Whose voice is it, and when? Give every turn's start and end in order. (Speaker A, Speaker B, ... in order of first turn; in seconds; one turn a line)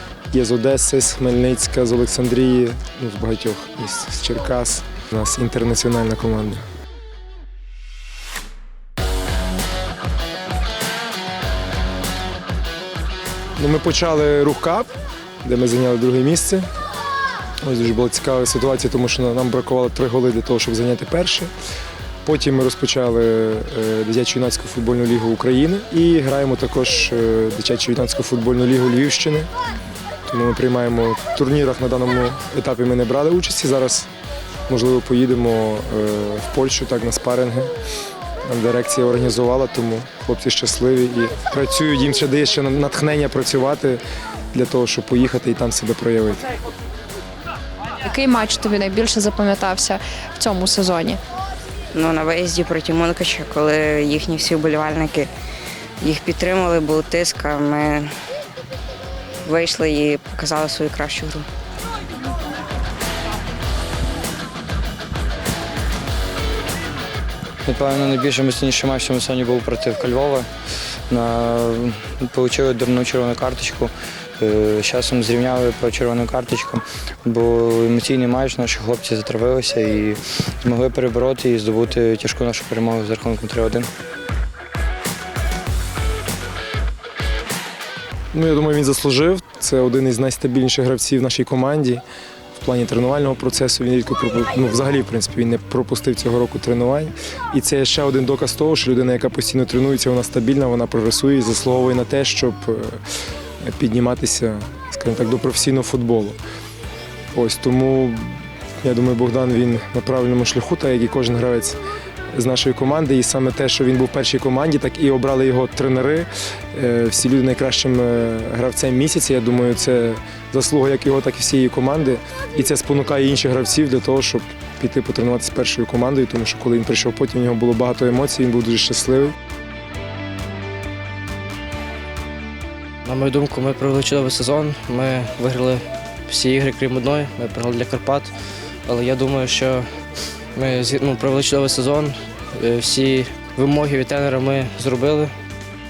Speaker A: 0.3-6.6
Speaker A: 13.6-14.9
Speaker A: 15.4-16.7
Speaker A: 17.6-21.5
Speaker A: 22.2-29.5
Speaker A: 30.2-34.1
Speaker A: 34.7-37.7
Speaker A: 38.4-46.4
Speaker B: 48.0-51.2
Speaker C: 51.9-55.3
Speaker C: 56.0-58.1
Speaker C: 59.4-61.5
Speaker D: 67.7-70.5
Speaker D: 71.1-83.9
Speaker A: 88.3-92.0
Speaker A: 92.5-103.0
Speaker A: 103.6-106.4
Speaker A: 107.3-111.8
Speaker A: 112.3-129.3
Speaker E: 133.0-138.3
Speaker E: 138.8-139.8
Speaker E: 140.5-145.3